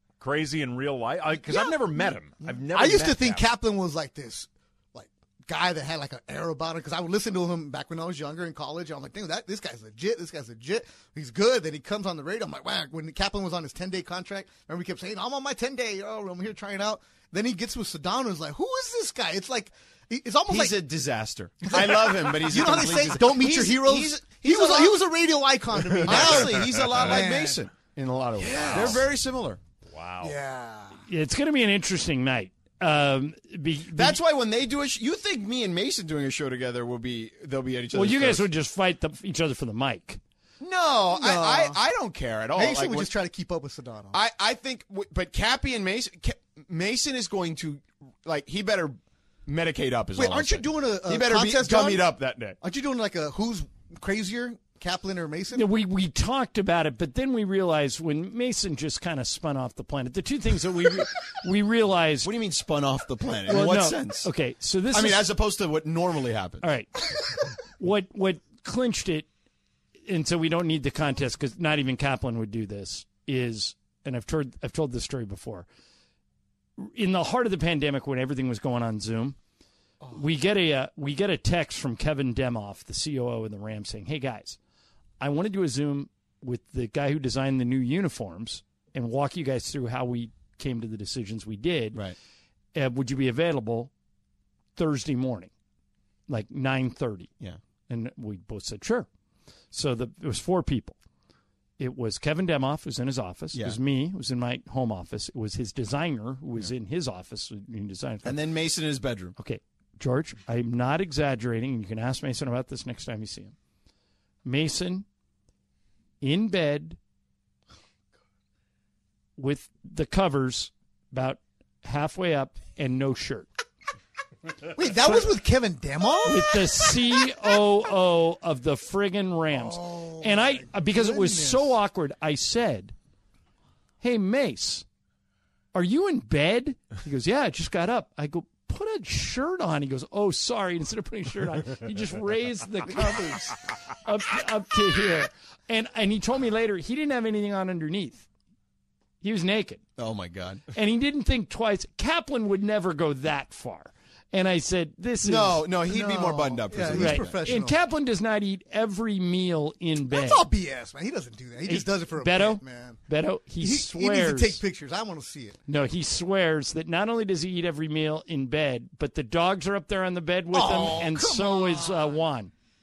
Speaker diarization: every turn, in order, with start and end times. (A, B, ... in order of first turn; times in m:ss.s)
0:00.2-0:03.5 A
0:01.4-0:20.9 B
0:20.5-0:25.0 C
0:21.6-0:27.6 B
0:25.8-0:29.6 C
0:26.8-0:27.1 A
0:28.4-0:29.1 B
0:28.6-0:29.0 A
0:29.9-0:30.4 A
0:30.2-0:31.0 B
0:31.1-0:34.2 D
0:33.9-0:38.5 C
0:37.9-0:40.2 D
0:40.6-0:43.1 C
0:41.0-0:41.8 B
0:42.5-0:44.2 B
0:44.1-0:52.6 C
0:50.2-0:55.7 B
0:55.5-1:02.3 D
1:02.2-1:04.3 C
1:03.5-1:05.3 D
1:04.9-1:06.7 C
1:06.6-1:07.0 D
1:07.8-1:09.3 D
1:10.1-1:15.7 D
1:16.8-1:19.4 D
1:20.1-1:24.6 D
1:25.2-1:32.0 D
1:32.7-1:33.9 D
1:34.8-1:35.5 D
1:36.3-1:37.3 D
1:37.9-1:39.1 D
1:39.7-1:41.0 D
1:41.8-1:48.4 D
1:48.2-1:49.3 C
1:49.4-1:53.5 D
1:54.4-1:55.0 D
1:56.2-1:57.0 D
1:59.4-2:03.5 D
2:04.7-2:06.6 B
2:06.2-2:12.9 D
2:09.5-2:11.8 B
2:14.0-2:14.8 D
2:15.7-2:28.2 D
2:29.2-2:29.8 D
2:30.0-2:30.6 C
2:30.7-2:35.7 D
2:35.2-2:37.4 C
2:35.8-2:37.8 B
2:36.9-2:40.4 D
2:40.1-2:43.0 B
2:41.6-2:44.6 D
2:43.6-2:45.6 B
2:45.7-2:52.5 D
2:50.5-2:52.1 B